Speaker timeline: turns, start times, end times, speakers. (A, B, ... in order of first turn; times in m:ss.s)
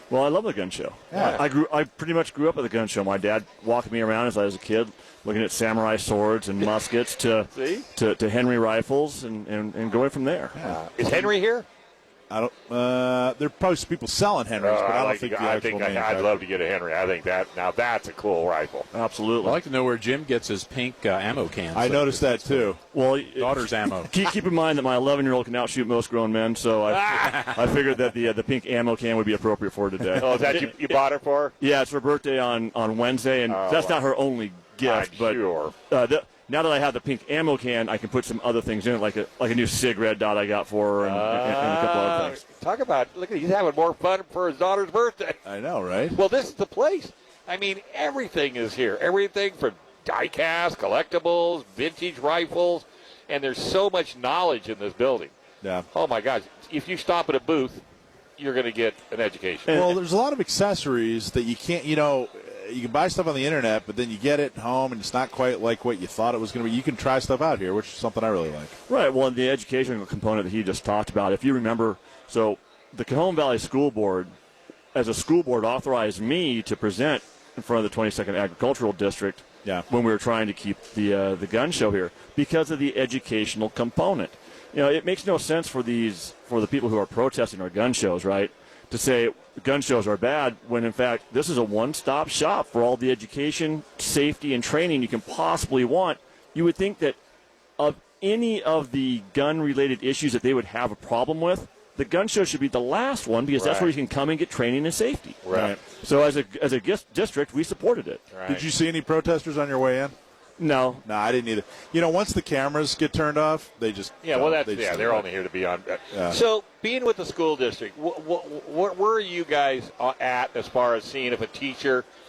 0:00.1-0:10.6 A
0:01.1-0:01.4 B
0:07.6-0:07.9 C
0:10.6-0:11.3 B
0:10.6-0:11.7 C
0:12.3-0:16.4 B
0:14.6-0:18.9 C
0:18.9-0:19.6 A
0:19.4-0:22.8 D
0:21.7-0:22.8 B
0:22.9-0:31.0 A
0:23.3-0:24.1 D
0:26.9-0:27.2 C
0:30.2-0:31.5 C
0:31.6-0:42.4 A
0:33.5-0:34.0 C
0:34.8-0:35.7 C
0:41.0-0:45.4 C
0:45.4-0:46.2 B
0:46.1-0:55.3 C
0:55.9-0:57.8 C
0:58.4-1:00.0 C
0:59.7-1:08.8 B
1:08.9-1:14.3 A
1:14.9-1:37.2 A
1:37.8-1:48.3 A
1:43.6-1:43.9 C
1:45.4-1:45.8 C
1:48.3-1:48.6 C
1:48.5-1:50.1 B
1:50.6-1:51.0 A
1:51.0-1:55.3 B
1:54.2-2:02.1 C
1:56.1-1:56.4 B